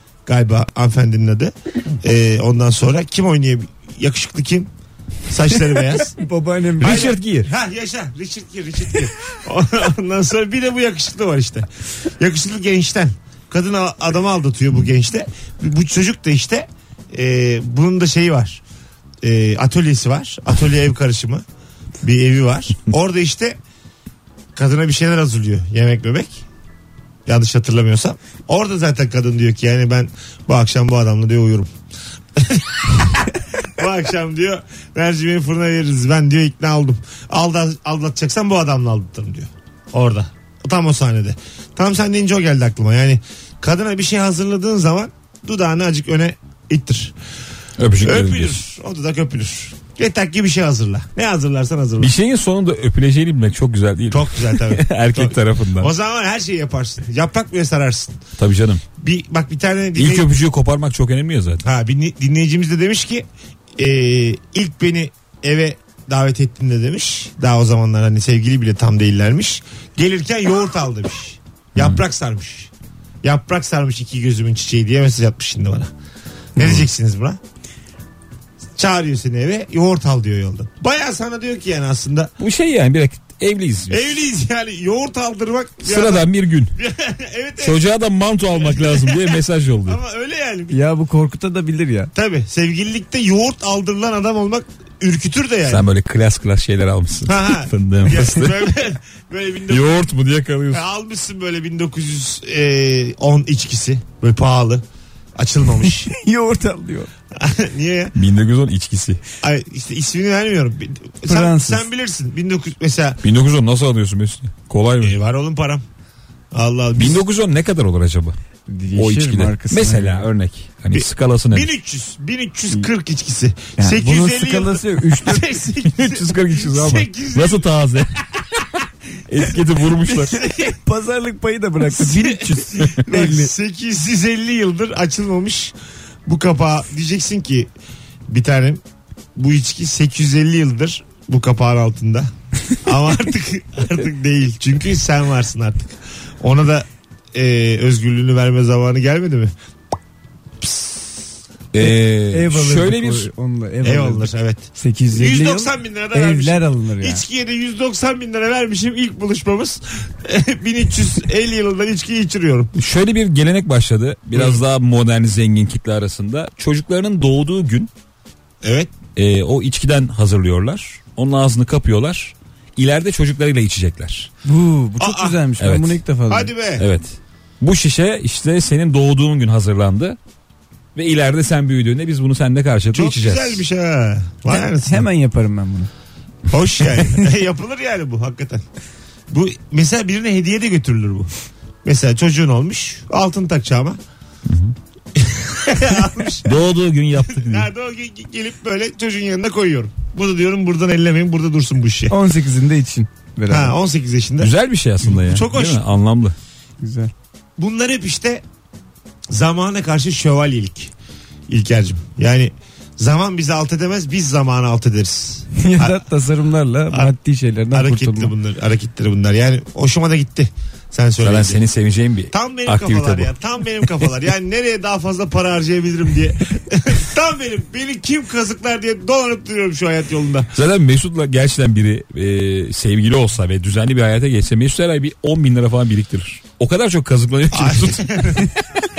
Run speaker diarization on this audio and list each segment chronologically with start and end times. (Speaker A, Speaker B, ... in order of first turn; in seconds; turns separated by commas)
Speaker A: 0.2-4.7, Speaker A: 5.3-6.2, Speaker B: 5.9-7.1, Speaker C: 6.8-7.5, Speaker A: 6.8-11.7, Speaker A: 12.2-18.6, Speaker A: 19.2-21.4, Speaker A: 22.0-23.6, Speaker A: 24.5-26.4, Speaker A: 27.2-31.7, Speaker A: 32.4-47.1, Speaker C: 47.8-48.6, Speaker A: 48.0-52.1, Speaker C: 52.0-55.9, Speaker A: 54.1-58.2, Speaker C: 58.4-58.8, Speaker A: 59.0-60.3, Speaker C: 60.0-61.6, Speaker A: 61.6-63.2, Speaker A: 63.8-72.7, Speaker A: 73.2-75.9, Speaker A: 76.5-77.4, Speaker A: 78.8-82.3, Speaker C: 82.4-84.1, Speaker A: 83.9-87.8, Speaker C: 85.8-86.8, Speaker C: 87.6-90.0, Speaker A: 88.5-90.8, Speaker B: 90.7-92.1, Speaker A: 92.1-95.9, Speaker C: 95.7-98.8, Speaker A: 97.2-100.0, Speaker C: 99.7-100.8, Speaker A: 100.7-104.8, Speaker A: 105.3-106.1, Speaker B: 106.0-107.1, Speaker A: 107.3-108.1, Speaker C: 108.1-109.2, Speaker A: 109.4-113.2, Speaker B: 111.2-111.9, Speaker C: 113.2-115.2, Speaker A: 115.0-115.8, Speaker A: 116.5-117.2, Speaker C: 117.0-118.4, Speaker B: 118.7-120.3, Speaker C: 118.9-121.7, Speaker A: 120.9-127.8, Speaker B: 123.8-125.5, Speaker C: 125.8-128.2, Speaker C: 129.3-130.4, Speaker B: 130.0-133.5, Speaker A: 130.2-130.8, Speaker A: 131.9-135.7, Speaker A: 136.2-137.7, Speaker A: 138.3-138.8, Speaker A: 139.3-142.3, Speaker A: 142.8-149.5, Speaker A: 150.6-151.3, Speaker C: 151.7-153.3, Speaker B: 151.8-157.2, Speaker A: 153.8-162.7, Speaker C: 162.7-167.9, Speaker A: 164.3-164.6, Speaker A: 168.6-168.9, Speaker C: 169.2-174.3, Speaker B: 174.4-176.5, Speaker A: 175.0-175.4, Speaker C: 175.6-176.0, Speaker A: 176.3-176.9, Speaker C: 176.8-180.2, Speaker C: 180.9-183.6, Speaker A: 182.9-185.1, Speaker B: 184.5-185.9, Speaker A: 186.5-188.6, Speaker A: 189.3-191.3, Speaker A: 191.8-194.0, Speaker C: 194.4-194.7, Speaker A: 195.1-196.5, Speaker C: 196.4-197.7, Speaker A: 197.2-202.1, Speaker B: 202.1-203.8, Speaker A: 203.5-204.5, Speaker C: 204.4-206.3, Speaker A: 205.0-205.8, Speaker B: 206.8-207.1, Speaker A: 207.6-208.4, Speaker A: 209.3-210.9, Speaker A: 211.5-216.0, Speaker B: 215.5-218.3, Speaker A: 217.7-221.6, Speaker C: 221.2-223.3, Speaker A: 222.3-230.5, Speaker C: 230.5-238.5, Speaker A: 237.5-238.5